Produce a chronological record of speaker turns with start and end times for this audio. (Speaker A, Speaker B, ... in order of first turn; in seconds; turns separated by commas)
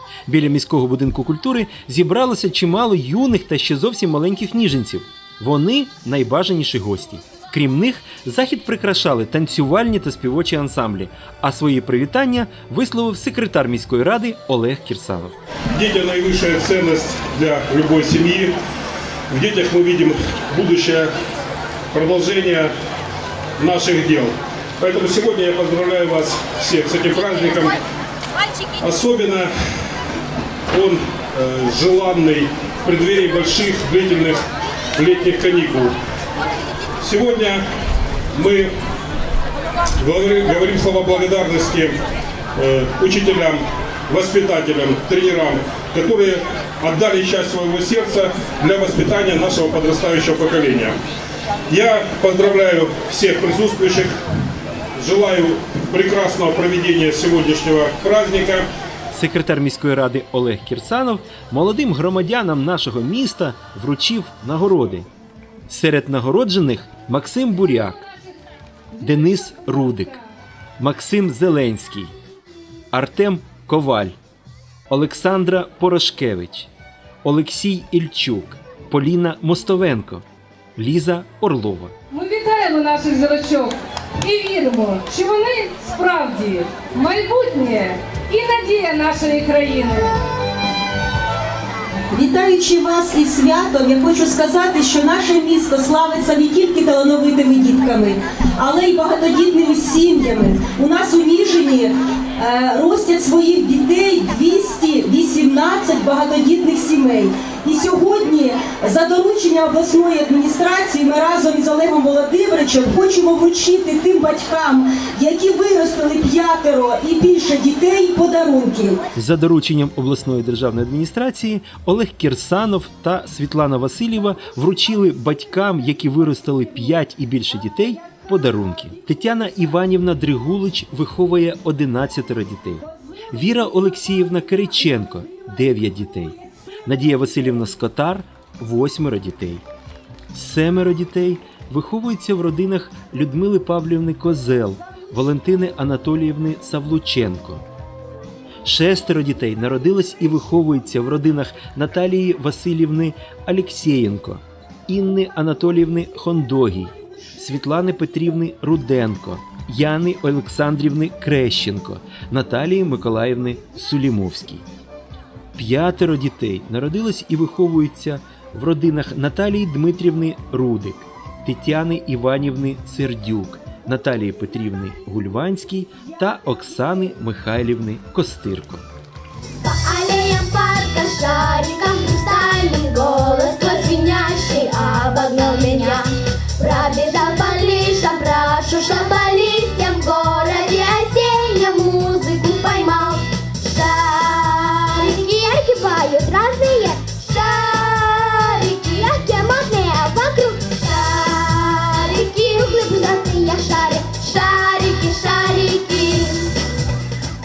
Speaker A: 0.3-15.4, Speaker B: 15.7-18.6, Speaker B: 19.3-21.1, Speaker B: 21.9-22.7, Speaker B: 23.6-27.8, Speaker B: 28.8-29.5, Speaker B: 30.7-34.4, Speaker B: 35.0-36.0, Speaker B: 37.0-37.6, Speaker B: 38.3-38.7, Speaker B: 40.0-42.0, Speaker B: 42.6-51.0, Speaker B: 51.7-54.1, Speaker B: 55.0-58.7, Speaker A: 59.1-65.1, Speaker A: 65.7-68.0, Speaker C: 68.9-70.1, Speaker A: 69.0-70.2, Speaker A: 70.8-72.1, Speaker A: 72.9-74.2, Speaker A: 74.9-76.7, Speaker A: 77.2-80.2, Speaker A: 80.8-82.0, Speaker C: 82.1-90.2, Speaker D: 92.1-119.0, Speaker A: 119.2-139.7, Speaker A: 140.3-147.7, Speaker A: 148.7-164.6, Speaker A: 165.6-178.8, Speaker E: 179.6-206.6